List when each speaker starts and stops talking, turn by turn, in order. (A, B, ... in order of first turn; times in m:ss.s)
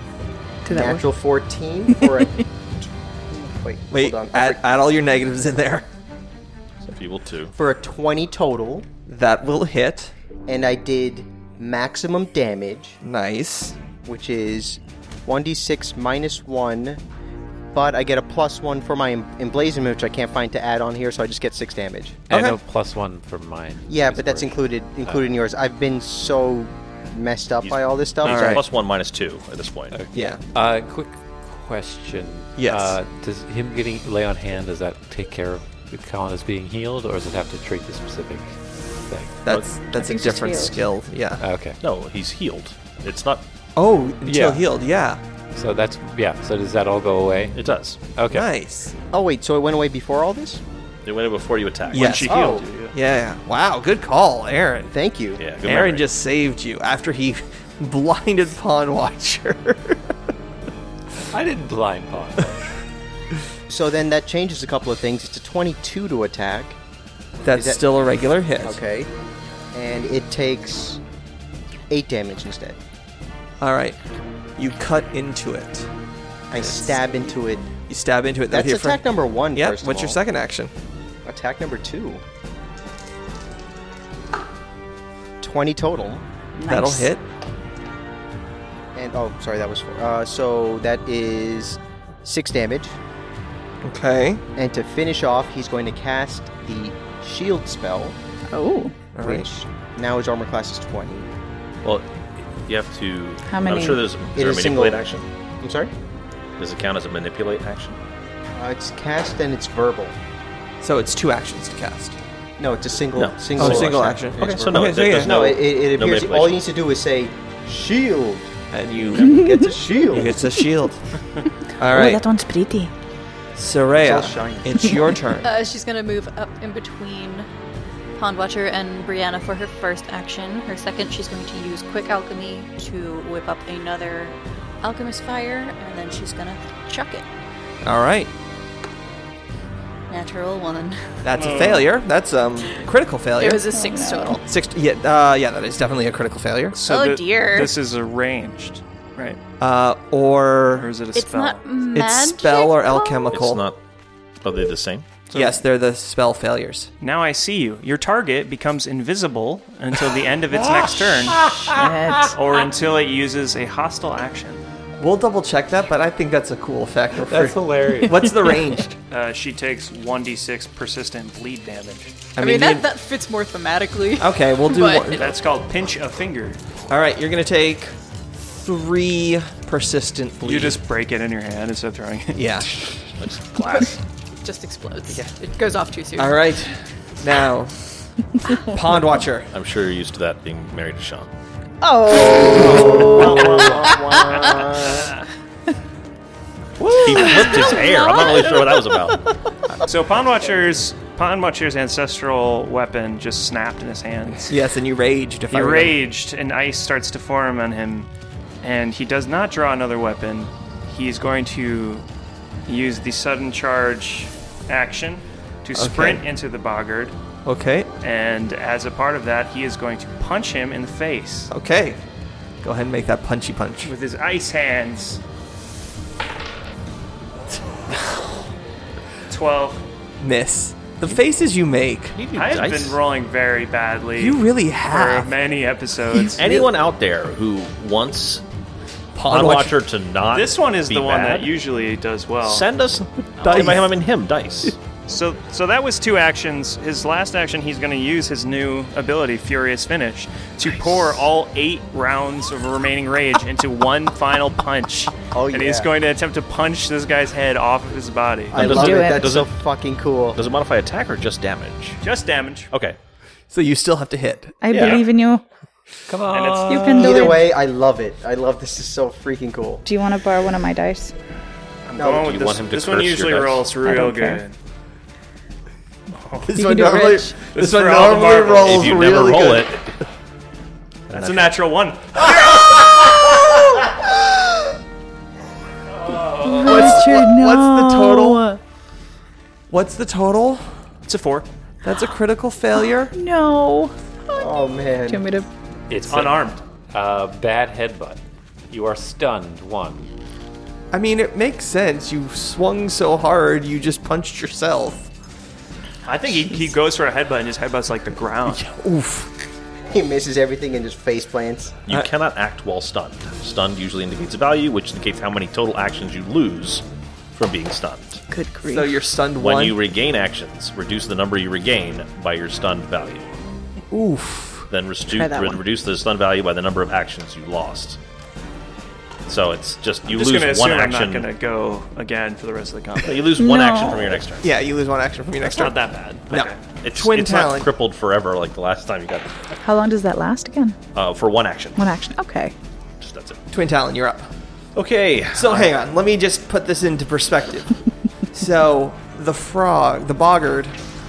0:00.6-0:01.1 A
0:00.7-0:04.6 B
0:02.0-0:02.3 A
0:03.9-0:05.9 C
0:06.9-0:07.5 D
0:07.5-0:08.9 B
0:09.0-0:10.1 C
0:10.5-0:13.0 B
0:13.0-0:13.8 C
0:14.0-0:17.0 B
0:17.7-0:22.2 B
0:22.3-0:25.2 E
0:22.3-0:22.6 C
0:23.9-0:28.6 B
0:27.6-0:30.0 D
0:28.2-0:28.6 C
0:29.9-0:39.4 E
0:30.1-0:30.4 C
0:32.6-0:33.0 C
0:39.4-0:41.4 C
0:39.9-0:40.8 A
0:41.4-0:41.8 E
0:41.8-0:43.4 D
0:43.8-0:45.2 C
0:44.2-0:44.7 E
0:45.5-0:48.5 E
0:47.5-0:48.0 D
0:48.3-0:48.9 C
0:49.1-0:50.6 B
0:51.0-0:52.3 D
0:51.9-0:53.0 F
0:51.9-0:54.9 C
0:52.3-0:52.6 B
0:54.9-0:55.4 B
0:55.4-0:56.1 D
0:55.6-1:00.0 C
1:01.3-1:02.7 E
1:03.7-1:06.8 B
1:07.4-1:08.8 C
1:07.5-1:07.8 B
1:08.6-1:09.1 B
1:09.7-1:11.0 B
1:11.9-1:12.8 B
1:13.6-1:14.0 C
1:14.6-1:15.9 C
1:16.5-1:17.7 B
1:16.6-1:17.0 C
1:17.9-1:19.0 C
1:18.5-1:20.2 B
1:19.5-1:20.7 C
1:21.2-1:22.2 B
1:25.4-1:26.2 B
1:26.6-1:27.1 A
1:26.7-1:27.2 C
1:28.9-1:33.0 B
1:33.8-1:34.4 C
1:34.6-1:38.2 B
1:38.5-1:38.9 A
1:39.1-1:39.4 C
1:39.2-1:41.3 B
1:41.8-1:45.2 D
1:43.5-1:44.0 A
1:44.4-1:45.9 B
1:46.6-1:48.0 D
1:48.5-1:50.2 B
1:50.8-1:52.2 C
1:52.6-1:58.6 B
1:53.2-1:56.6 D
1:53.6-1:55.3 C
1:58.7-1:59.5 C
1:59.1-2:00.4 B
1:59.2-1:59.6 A
2:00.1-2:01.0 C
2:01.8-2:02.2 C
2:01.8-2:02.9 A
2:03.6-2:05.5 C
2:04.0-2:04.9 B
2:05.4-2:07.5 G
2:08.2-2:17.3 G
2:17.8-2:18.3 C
2:20.1-2:21.6 G
2:21.2-2:23.7 C
2:21.3-2:21.9 F
2:23.4-2:24.4 G
2:23.7-2:24.4 A
2:24.4-2:26.8 C
2:26.7-2:29.4 F
2:26.8-2:27.7 G
2:29.6-2:30.9 C
2:30.7-2:31.7 F
2:31.1-2:33.5 G
2:31.9-2:33.6 C
2:33.3-2:33.8 D
2:34.4-2:35.1 D
2:35.3-2:35.6 F
2:35.3-2:36.9 C
2:37.0-2:41.4 F
2:40.5-2:42.3 E
2:41.8-2:42.3 A
2:42.3-2:44.6 F
2:45.0-2:49.0 C
2:47.2-2:48.4 E
2:49.1-2:52.3 F
2:52.4-2:52.9 C
2:52.4-2:55.3 G
2:54.2-2:55.4 C
2:55.1-2:56.6 F
2:56.9-3:00.8 C
3:00.4-3:02.6 F
3:02.3-3:02.7 C
3:03.2-3:04.0 D
3:03.6-3:03.9 G
3:04.4-3:06.6 G
3:06.2-3:07.7 C
3:08.5-3:09.5 C
3:09.5-3:11.3 D
3:11.8-3:13.6 A
3:12.5-3:15.1 B
3:12.9-3:15.2 F
3:16.8-3:17.6 C
3:16.9-3:19.2 D
3:17.3-3:17.6 A
3:19.9-3:24.6 F
3:24.5-3:26.0 C
3:25.5-3:28.1 F
3:28.6-3:32.0 F
3:32.6-3:37.2 F
3:35.7-3:36.2 C
3:37.4-3:37.9 C
3:38.0-3:41.5 F
3:41.5-3:42.0 C
3:42.6-3:43.9 C
3:43.8-3:45.2 F
3:49.3-3:49.8 F
3:50.2-3:52.2 C
3:52.1-3:53.0 D
3:52.3-3:56.6 F
3:54.2-3:55.3 C
3:56.4-3:58.4 D
3:59.1-3:59.8 C
3:59.3-4:01.5 D
4:00.3-4:02.7 F
4:02.4-4:04.8 D
4:03.4-4:03.9 C
4:05.1-4:18.6 F
4:15.3-4:15.9 B
4:18.5-4:20.4 B
4:18.5-4:19.5 D
4:18.6-4:19.3 A
4:20.3-4:22.0 D
4:22.0-4:22.7 F
4:22.7-4:23.0 D
4:23.5-4:24.6 C
4:24.6-4:25.4 A
4:24.7-4:25.0 D
4:26.1-4:27.3 E
4:26.3-4:27.1 F
4:26.7-4:27.4 A
4:27.0-4:29.8 B
4:29.8-4:31.1 A
4:31.9-4:34.6 F
4:31.9-4:32.3 B
4:32.0-4:33.7 D
4:33.8-4:34.4 A
4:36.1-4:36.5 F
4:36.4-4:39.8 C
4:36.5-4:37.4 A
4:37.4-4:39.1 F
4:38.6-4:39.9 D
4:41.1-4:42.7 F
4:41.1-4:41.5 D
4:46.3-4:46.6 F
4:46.4-4:48.6 A
4:46.6-4:48.5 C
4:49.7-4:50.7 C
4:51.0-4:51.5 F
4:51.8-4:53.1 C
4:53.1-4:54.5 A
4:54.3-4:55.2 B
4:55.0-4:55.5 A
4:55.9-5:00.1 E
4:56.1-4:56.6 F
5:00.9-5:05.1 C
5:06.0-5:08.7 F
5:08.5-5:09.3 C
5:09.9-5:11.8 B
5:11.9-5:16.8 D
5:17.3-5:18.2 D
5:18.3-5:19.0 A
5:18.7-5:19.8 C
5:19.4-5:23.3 D
5:23.9-5:24.7 C
5:24.7-5:28.0 D
5:25.1-5:25.6 A
5:29.3-5:31.3 D
5:30.1-5:33.3 F
5:33.0-5:34.5 D
5:33.4-5:34.2 A
5:34.4-5:37.7 C
5:35.4-5:36.6 F
5:36.8-5:39.4 D
5:39.6-5:40.8 A
5:40.9-5:41.9 D
5:41.8-5:42.5 A
5:43.0-5:43.4 D
5:43.5-5:44.3 C
5:44.7-5:45.7 D
5:45.3-5:47.7 C
5:48.3-5:50.8 C